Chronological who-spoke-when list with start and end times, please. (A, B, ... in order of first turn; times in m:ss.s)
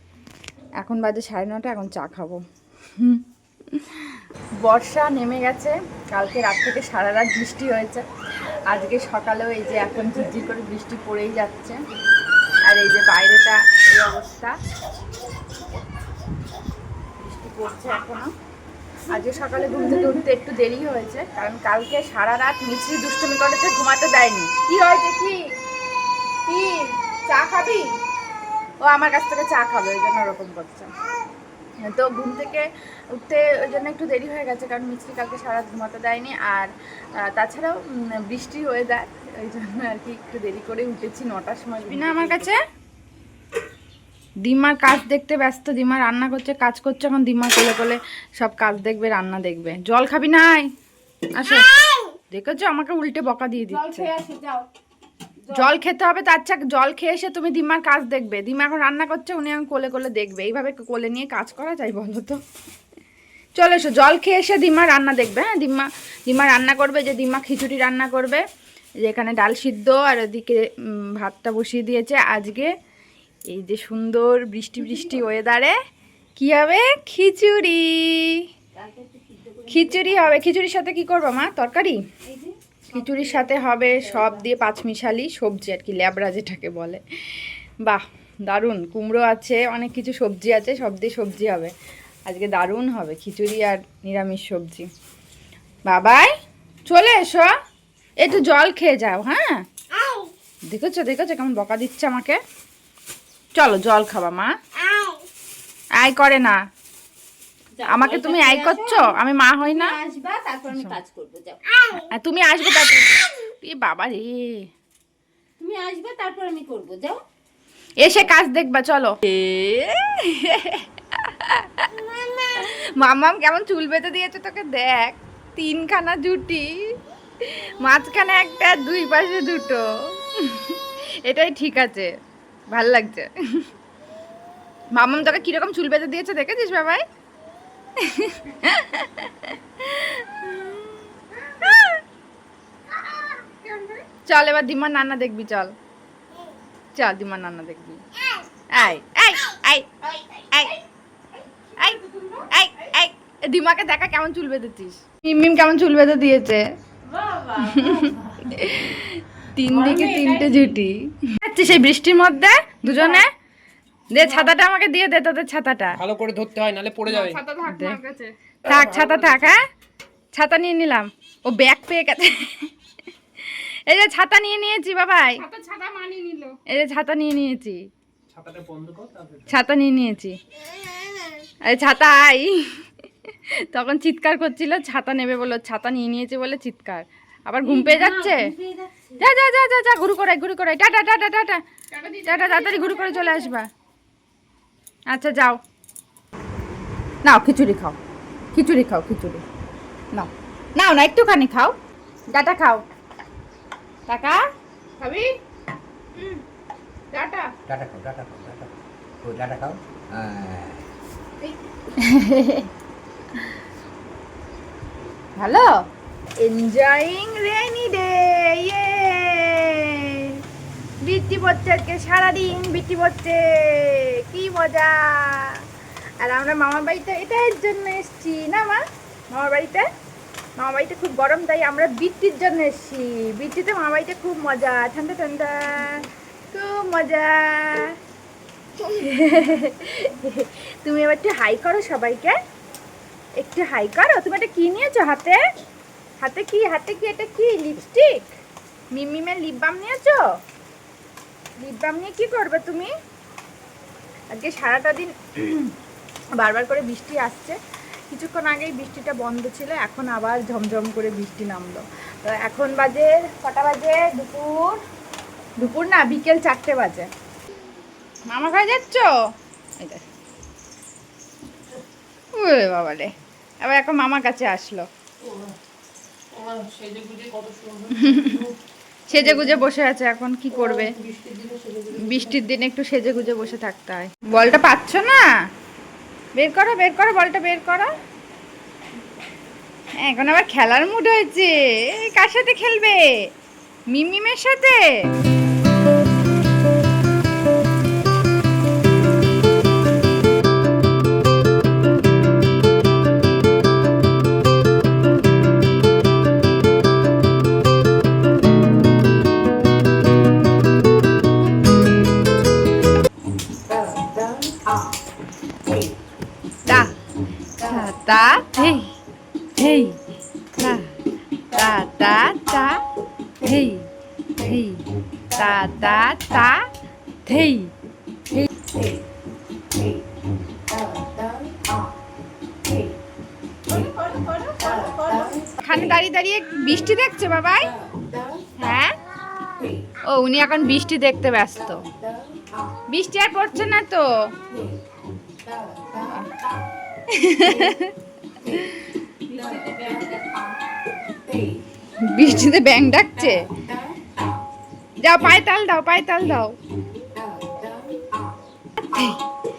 0:00.8-0:02.4 A
0:03.8-0:04.1 A
0:04.6-0:08.0 A
0:08.7-0:11.8 A
0:12.7-0:14.5 A
0:17.2-0:18.3 A
0:19.1-0:25.4 A
0:26.5-0:27.9 A
0:28.8-0:30.9 A
0:31.9-0:42.6 A
0:41.9-0:42.4 B
0:44.4-0:50.7 A
0:51.4-0:51.7 A
0:52.3-0:54.1 A
0:53.7-0:54.7 B
0:55.5-1:02.4 A
1:03.6-1:08.4 A
1:09.0-1:12.7 A
1:13.5-1:15.7 A
1:14.8-1:15.2 B
1:16.4-1:18.4 A
1:18.7-1:20.4 B
1:19.7-1:22.0 A
1:22.3-1:24.4 B
1:22.9-1:31.7 A
1:32.2-1:34.9 A
1:35.9-1:36.3 A
1:36.9-1:37.5 A
1:38.2-1:39.5 A
1:40.7-1:42.4 A
1:43.6-1:44.5 A
1:46.0-1:46.6 A
1:47.8-1:52.0 B
1:47.8-1:50.0 A
1:52.1-1:54.6 A
1:55.6-1:57.2 B
1:58.0-2:01.9 A
2:02.5-2:06.8 A
2:07.4-2:12.1 A
2:12.7-2:13.3 A
2:14.9-2:17.0 A
2:18.0-2:22.0 A
2:24.2-2:25.7 A
2:27.0-2:28.0 A
2:28.7-2:30.8 A
2:31.8-2:36.6 A
2:37.1-2:38.6 B
2:38.4-2:43.3 A
2:39.7-2:40.8 B
2:42.9-2:43.2 B
2:44.1-2:46.0 A
2:45.9-2:48.3 C
2:47.6-2:48.0 A
2:48.6-2:49.6 A
2:49.0-2:49.5 B
2:50.3-2:52.7 A
2:53.4-2:55.4 A
2:55.4-2:56.5 C
2:56.7-2:57.8 A
2:58.3-2:59.5 C
2:59.5-3:00.4 A
3:01.7-3:02.7 A
3:03.5-3:08.5 A
3:07.6-3:09.2 B
3:09.2-3:11.6 A
3:12.0-3:13.2 C
3:12.2-3:13.7 A
3:15.1-3:15.6 A
3:17.2-3:18.0 A
3:18.5-3:19.4 A
3:20.1-3:21.7 A
3:22.3-3:22.8 A
3:24.1-3:24.4 A
3:25.0-3:25.3 A
3:27.1-3:27.5 A
3:27.7-3:28.7 D
3:29.2-3:30.8 D
3:32.0-3:32.7 A
3:35.4-3:35.8 A
3:36.4-3:40.4 A
3:41.0-3:45.6 A
3:46.2-3:49.8 A
3:50.6-3:58.0 A
3:58.8-4:02.4 A
4:03.4-4:05.4 A
4:06.2-4:08.3 A
4:08.9-4:10.2 A
4:11.6-4:12.9 A
4:14.3-4:15.7 A
4:16.4-4:17.6 A
4:18.1-4:24.8 A
4:25.6-4:27.1 A
4:28.3-4:29.1 A
4:32.3-4:33.1 A
4:33.6-4:34.8 A
4:35.2-4:35.5 C
4:36.3-4:38.5 C
4:38.0-4:38.4 A
4:39.1-4:40.9 A
4:39.3-4:39.6 C
4:40.5-4:42.4 C
4:42.0-4:45.2 A
4:46.4-4:47.9 A
4:50.0-4:53.1 A
4:53.9-4:54.9 A
5:16.6-5:16.9 A
5:17.6-5:18.9 A
5:19.6-5:20.0 A
5:20.6-5:21.0 A
5:21.5-5:22.8 A
5:23.4-5:26.6 A
5:27.2-5:27.7 A
5:33.7-5:35.5 B
5:35.6-5:37.7 A
5:38.6-5:38.9 A
5:40.0-5:41.8 A
5:42.9-5:44.2 A
5:46.0-5:46.3 A
5:47.1-5:47.9 A
5:48.4-5:48.8 A
5:49.3-5:50.2 B
5:52.0-5:53.5 A
5:55.0-5:56.5 A
5:58.9-5:59.2 A